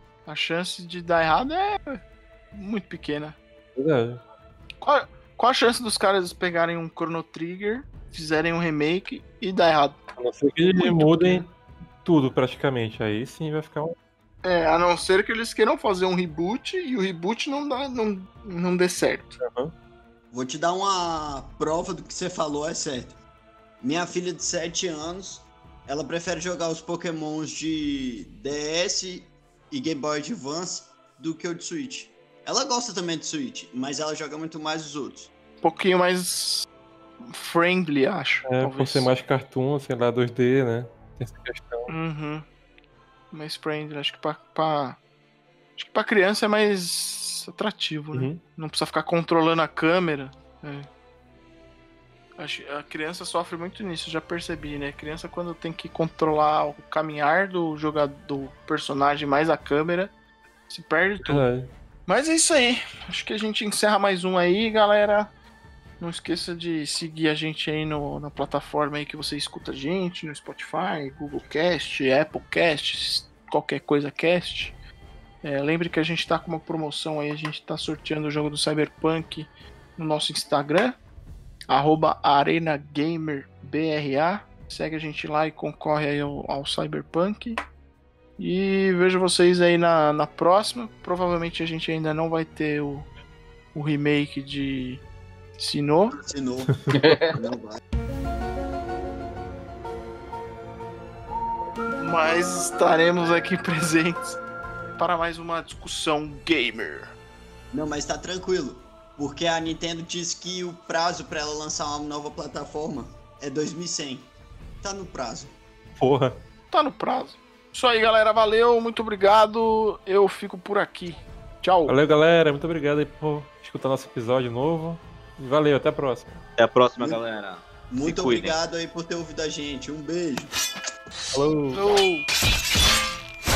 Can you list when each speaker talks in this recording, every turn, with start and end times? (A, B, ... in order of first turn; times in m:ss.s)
0:00.3-0:02.0 A
0:02.5-0:03.4 A
0:03.8-0:04.2 B
0:04.8-0:10.0 A
0:10.2-0:11.5 B
0:10.8-0:11.5 A
0:12.0-0:14.0 B
0:14.4-0:19.4 A
0:19.4-0:19.7 B
0:20.3-0:23.2 C
0:23.8-0:35.3 C
0:35.6-0:36.7 A
0:37.3-0:39.1 A
0:38.5-0:41.9 B
0:41.9-0:42.5 A
0:43.3-0:45.0 A
0:45.8-0:50.9 A
0:48.1-0:48.4 B
0:52.4-1:00.1 A
1:00.7-1:01.5 A
1:01.2-1:01.7 B
1:02.1-1:05.3 A
1:06.0-1:14.8 A
1:15.4-1:21.0 A
1:21.7-1:27.6 A
1:28.4-1:33.1 A
1:33.7-1:35.0 A
1:35.6-1:36.2 A
1:36.1-1:37.8 C
1:37.0-1:37.4 D
1:42.0-1:44.4 A
1:45.0-1:47.1 A
1:47.7-1:54.3 C
1:54.8-1:55.6 C
1:56.0-1:56.4 B
1:56.7-2:02.0 A
2:01.9-2:06.4 B
2:06.6-2:08.6 D
2:07.9-2:10.5 C
2:11.3-2:11.8 B
2:11.7-2:12.3 A